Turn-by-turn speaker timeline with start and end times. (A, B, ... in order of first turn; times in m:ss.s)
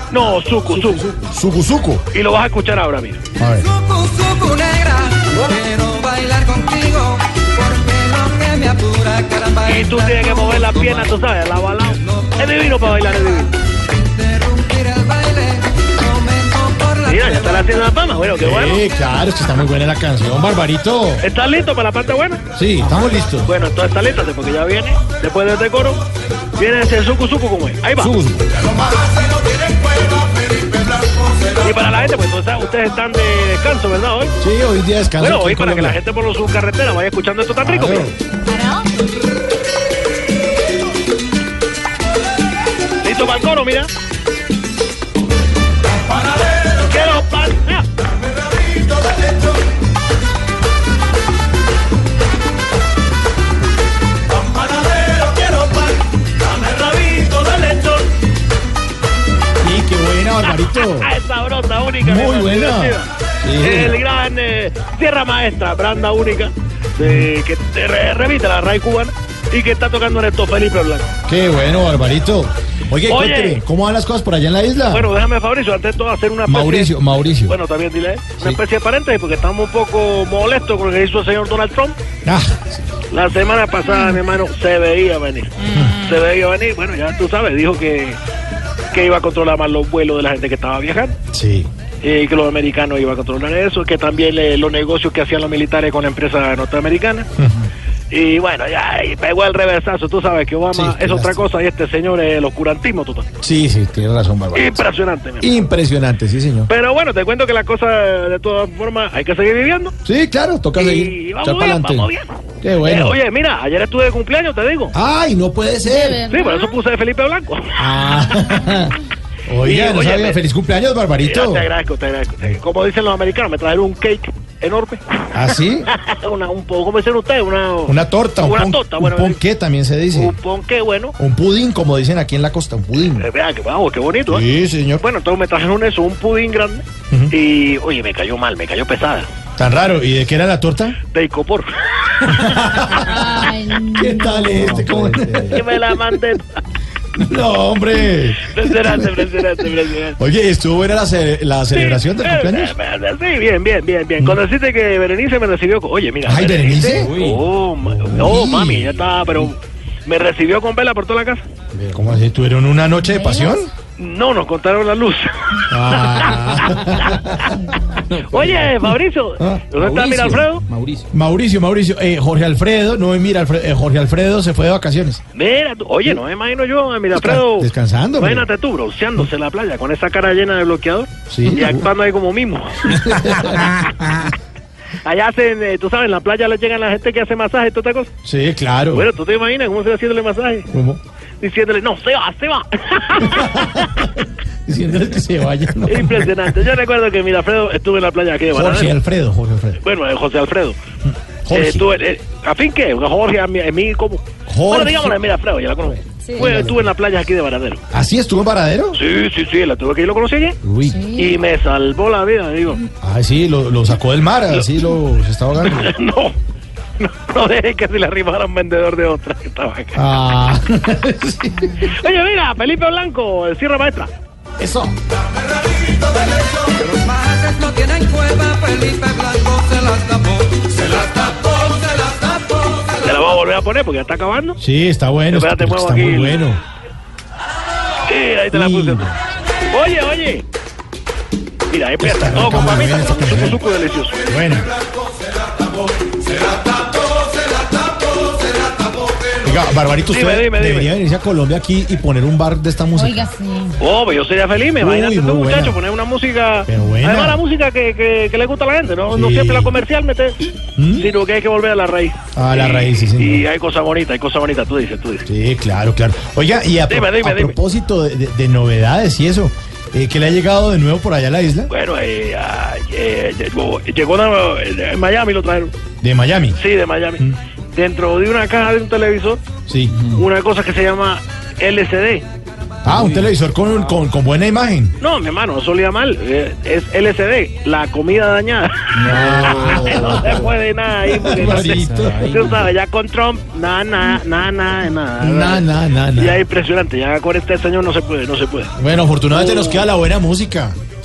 0:00.1-0:01.1 A
0:00.8-0:02.0 B
0:02.1-0:03.2 A
0:03.4-0:03.7 B
0:03.6-0:11.1 C
0:09.6-0:13.5 A
0:11.9-0:17.8 C
0:17.1-0:18.8 A
0:18.4-0:21.2 B
0:21.2-0:22.4 A
0:22.5-0:23.5 B
0:23.4-0:26.0 A
0:26.6-0:28.1 A
0:28.0-0:29.0 B
0:31.6-0:34.3 A
0:34.4-0:36.0 B
0:35.2-0:38.1 A
0:37.6-0:38.1 B
0:38.5-0:38.9 D
0:43.0-0:43.9 A
0:46.6-0:47.9 A
0:48.7-0:49.4 A
0:54.4-0:58.1 A
0:59.6-1:01.1 B
1:00.5-1:11.1 A
1:02.0-1:03.9 B
1:07.0-1:07.3 B
1:11.3-1:15.1 B
1:13.1-1:13.6 A
1:14.9-1:16.9 A
1:16.5-1:17.5 B
1:17.5-1:22.0 A
1:22.2-1:22.9 B
1:23.1-1:28.2 A
1:23.9-1:24.2 D
1:25.7-1:26.0 B
1:28.9-1:31.2 A
1:31.3-1:31.7 B
1:32.0-1:37.3 A
1:37.4-1:37.6 B
1:38.1-1:43.3 A
1:40.7-1:41.4 B
1:43.4-1:44.8 B
1:44.5-1:45.5 A
1:45.4-1:46.7 B
1:46.7-1:49.9 A
1:50.0-1:52.1 B
1:50.8-1:52.3 A
1:52.6-1:53.2 B
1:52.8-1:54.9 A
1:54.9-1:56.3 B
1:55.8-1:56.7 D
1:56.3-1:57.9 A
1:57.8-2:01.7 B
1:59.6-2:00.4 A
2:01.2-2:05.2 A
2:05.3-2:05.9 B
2:05.9-2:09.4 A
2:07.9-2:10.3 B
2:10.1-2:11.1 A
2:11.2-2:13.2 B
2:13.2-2:14.4 A
2:14.3-2:15.0 B
2:15.0-2:19.3 A
2:19.6-2:21.0 B
2:21.1-2:22.3 A
2:22.2-2:25.8 B
2:23.0-2:24.8 D
2:25.1-2:25.5 E
2:25.5-2:26.6 A
2:27.1-2:29.5 B
2:28.4-2:30.2 A
2:30.2-2:32.7 B
2:31.7-2:41.4 A
2:36.2-2:37.2 B
2:37.0-2:37.4 E
2:37.8-2:38.9 B
2:41.8-2:43.7 B
2:43.2-2:43.6 D
2:44.0-2:46.4 A
2:45.7-2:47.6 B
2:48.0-2:48.8 E
2:48.1-2:50.6 A
2:49.4-2:49.8 B
2:49.8-2:51.1 E
2:51.1-2:55.2 B
2:55.3-3:03.1 A
2:57.1-2:58.5 B
3:01.3-3:01.9 B
3:02.9-3:04.2 B
3:05.0-3:08.1 A
3:08.2-3:09.1 B
3:08.9-3:10.7 A
3:10.7-3:11.0 B
3:11.4-3:13.8 A
3:13.2-3:16.4 B
3:15.8-3:18.9 A
3:18.5-3:19.8 B
3:19.8-3:20.8 A
3:21.0-3:21.9 B
3:21.5-3:27.8 A
3:24.5-3:25.2 B
3:26.2-3:26.6 D
3:26.4-3:26.8 B
3:27.9-3:29.0 B
3:28.9-3:30.6 A
3:30.6-3:31.0 B
3:30.8-3:31.4 D
3:31.1-3:32.8 A
3:33.0-3:35.9 B
3:35.6-3:36.4 A
3:37.0-3:40.0 A
3:39.9-3:41.8 B
3:41.8-3:44.1 A
3:44.6-3:44.9 B
3:46.4-3:51.5 C
3:53.0-3:54.6 A
3:54.6-3:56.6 B
3:55.3-3:56.4 A
3:58.0-3:59.1 A
3:58.5-3:59.2 B
3:59.7-4:00.4 A
4:01.7-4:04.2 A
4:02.0-4:03.6 B
4:04.3-4:04.7 B
4:09.4-4:13.3 B
4:10.1-4:10.9 A
4:13.0-4:13.8 D
4:13.8-4:20.4 A
4:14.8-4:15.8 B
4:16.6-4:17.4 B
4:19.1-4:19.7 B
4:20.8-4:21.1 B
4:21.0-4:25.2 A
4:22.3-4:23.4 B
4:25.3-4:31.7 B
4:26.9-4:27.6 A
4:31.7-4:35.7 A
4:36.0-4:36.6 B
4:36.6-4:39.4 A
4:39.7-4:40.1 B
4:40.1-4:42.2 A
4:42.8-4:45.0 B
4:42.9-4:43.2 E
4:45.0-4:55.6 A
4:49.0-4:50.4 E
4:49.0-4:50.5 B
4:51.1-4:52.3 B
4:51.4-4:52.7 E
4:55.2-4:56.4 B
4:56.2-4:58.7 A
4:58.8-5:00.7 B
4:59.3-4:59.8 A